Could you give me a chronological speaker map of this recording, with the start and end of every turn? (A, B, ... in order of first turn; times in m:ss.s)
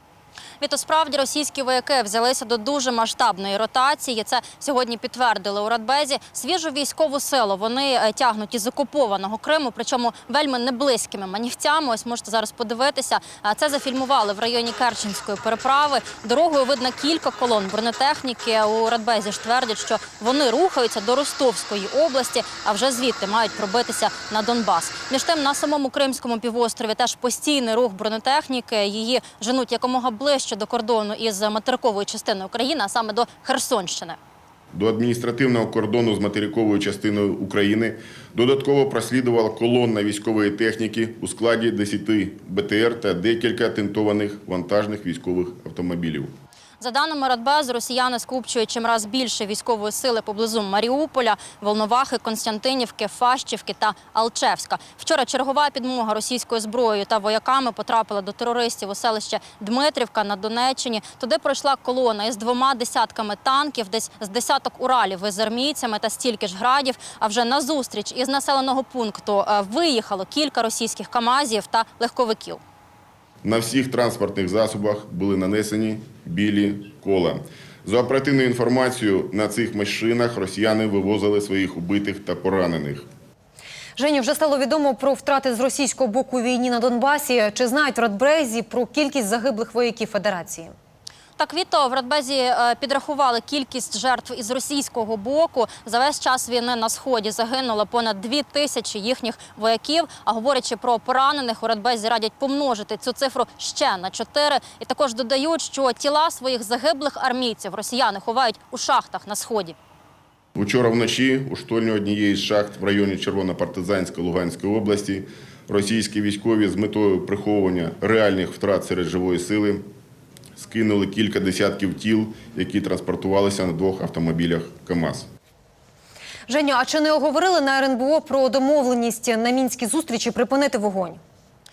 0:00.6-0:34.2 A
0:34.7-0:46.3 B
0:46.8-1:12.6 A
1:13.4-1:23.0 B
1:24.0-1:30.7 C
1:31.4-1:49.8 A
1:50.5-1:59.8 B
2:00.6-2:05.2 B
2:06.5-2:11.2 C